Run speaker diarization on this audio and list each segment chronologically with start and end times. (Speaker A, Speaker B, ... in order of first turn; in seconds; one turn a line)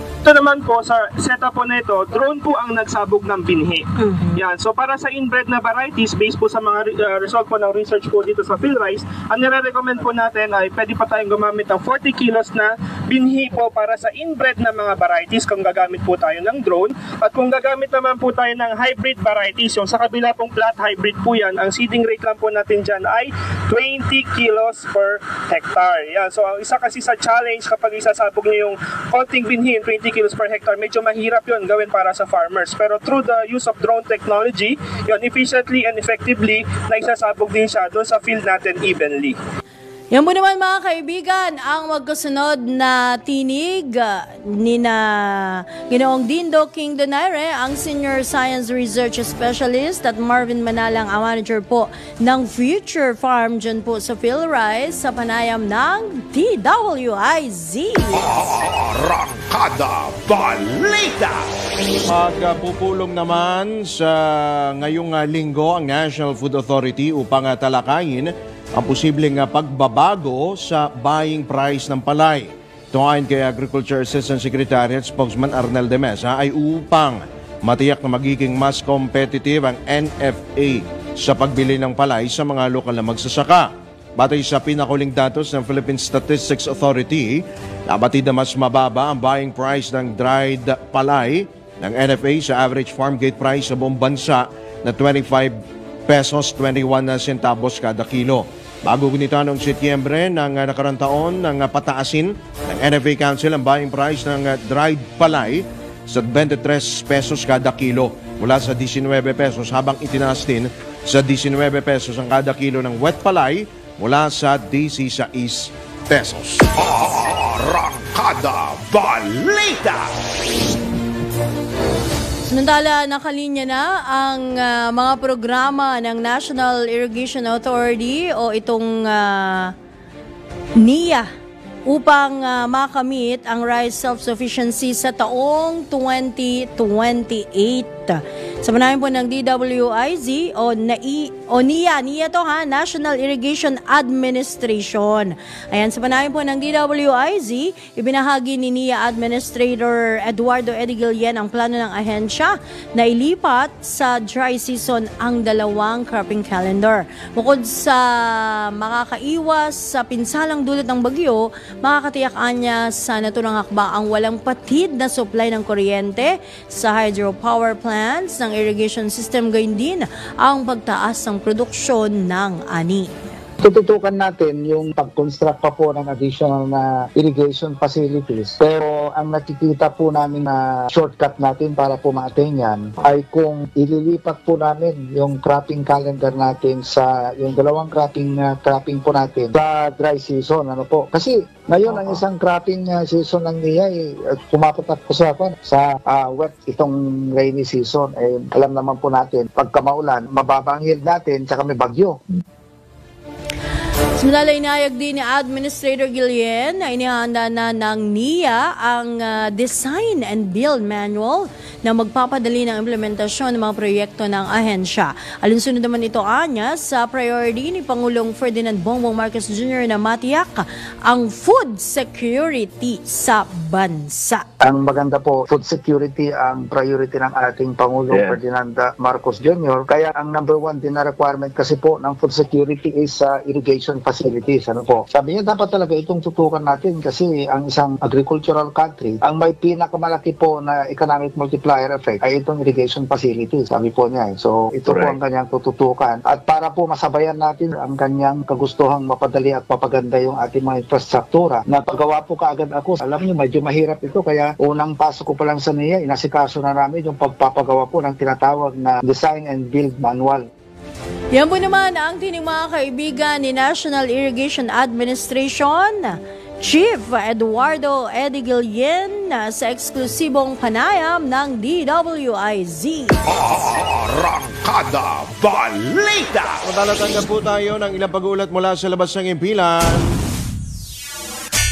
Speaker A: 0.2-39.4
Speaker B: 4.0-4.4
Speaker B: 40.1-58.3
Speaker C: 58.1-61.5
Speaker D: 62.0-116.7
Speaker C: 116.8-120.1
Speaker B: 122.5-129.7
Speaker B: 130.8-131.3
Speaker B: 131.9-173.2
Speaker E: 173.6-202.2
Speaker B: 204.2-224.4
Speaker E: 224.6-260.4
Speaker B: 261.3-273.1
Speaker C: 273.2-276.6
Speaker D: 276.6-280.1